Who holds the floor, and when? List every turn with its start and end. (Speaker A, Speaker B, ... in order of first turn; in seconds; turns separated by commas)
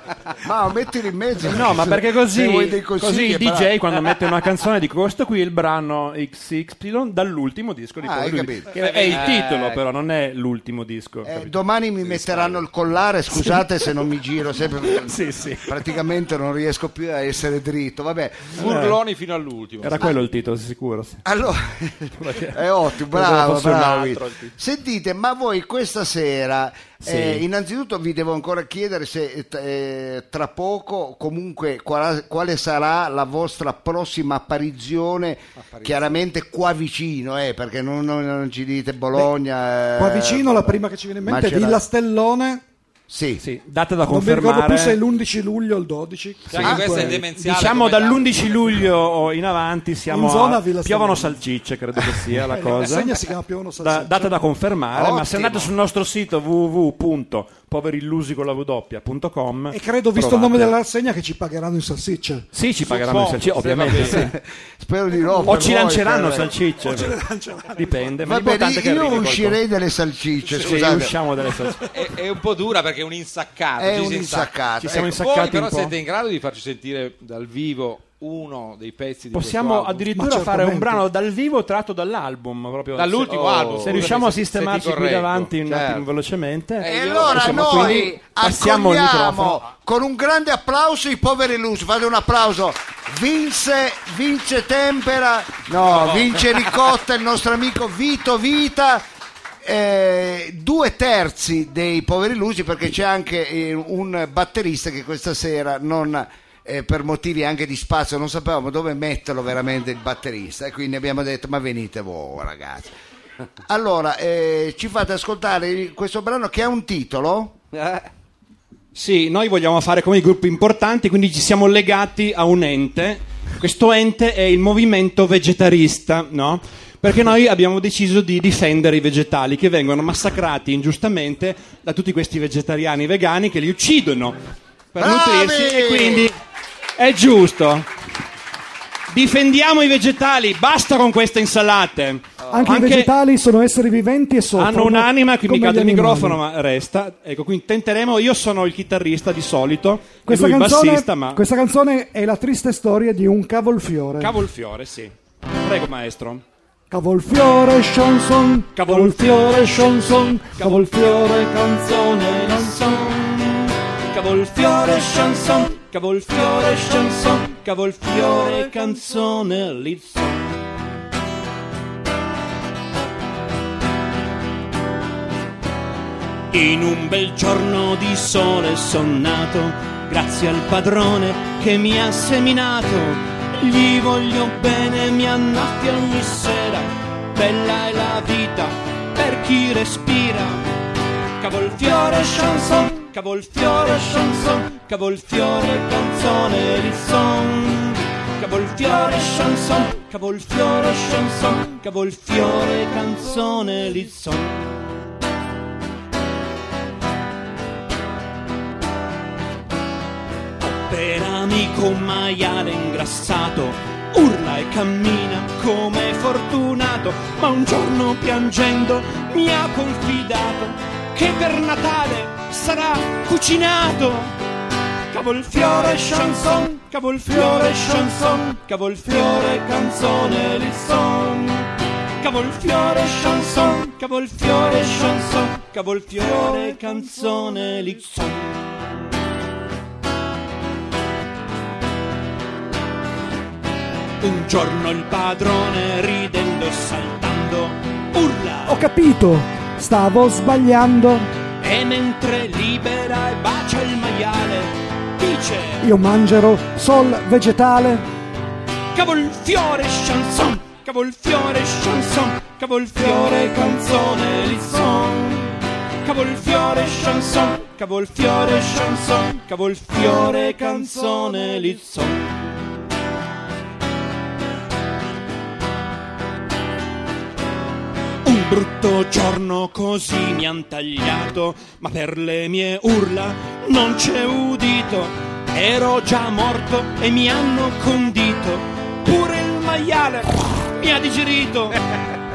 Speaker A: 0.4-4.0, Speaker B: 1.4-11.5, Speaker A: 8.0-8.7, Speaker C: 8.8-9.7, Speaker D: 9.1-9.8, Speaker A: 11.2-18.6, Speaker C: 12.1-12.6, Speaker B: 13.3-13.8, Speaker B: 14.8-15.7, Speaker C: 18.5-20.1, Speaker B: 18.6-19.0, Speaker B: 19.8-21.2, Speaker A: 21.2-41.8, Speaker B: 22.2-24.5, Speaker B: 27.0-27.4, Speaker C: 35.6-36.1, Speaker E: 40.0-42.6, Speaker A: 43.1-43.4, Speaker B: 43.4-45.0, Speaker E: 44.0-47.3, Speaker C: 46.5-49.0, Speaker B: 46.5-53.2, Speaker E: 50.1-51.4, Speaker E: 52.3-54.3, Speaker B: 53.8-60.8, Speaker A: 54.9-55.7, Speaker E: 59.7-62.5, Speaker B: 62.5-64.3, Speaker C: 62.8-64.3, Speaker A: 64.0-66.6, Speaker E: 65.3-65.7, Speaker B: 65.4-67.2, Speaker E: 66.8-68.1, Speaker B: 67.7-69.6, Speaker A: 68.2-71.2, Speaker C: 70.5-70.8, Speaker B: 70.6-71.8, Speaker E: 71.4-71.7, Speaker C: 71.9-80.1, Speaker A: 73.8-75.2, Speaker B: 74.8-75.9, Speaker B: 79.3-89.6, Speaker E: 80.1-81.0, Speaker C: 82.9-85.5, Speaker D: 83.3-84.1, Speaker D: 85.6-86.1, Speaker C: 86.8-88.0, Speaker A: 86.8-99.0, Speaker C: 95.8-96.6, Speaker A: 99.6-112.9, Speaker A: 113.7-117.5, Speaker D: 117.7-118.1, Speaker B: 118.9-134.4, Speaker B: 134.9-136.4, Speaker A: 135.0-136.3, Speaker B: 136.9-137.9, Speaker B: 139.1-143.1, Speaker D: 142.4-142.8, Speaker E: 142.5-146.4, Speaker B: 144.5-151.4, Speaker E: 150.2-154.4, Speaker B: 154.2-156.4, Speaker E: 156.9-163.1, Speaker B: 158.8-170.7, Speaker B: 176.5-190.6, Speaker B: 191.4-204.8, Speaker B: 210.6-224.3, Speaker B: 225.1-231.7, Speaker B: 232.2-239.0, Speaker B: 244.2-248.8, Speaker E: 248.7-251.3, Speaker B: 251.6-255.8, Speaker E: 255.8-258.0, Speaker B: 258.9-272.8, Speaker B: 278.2-291.8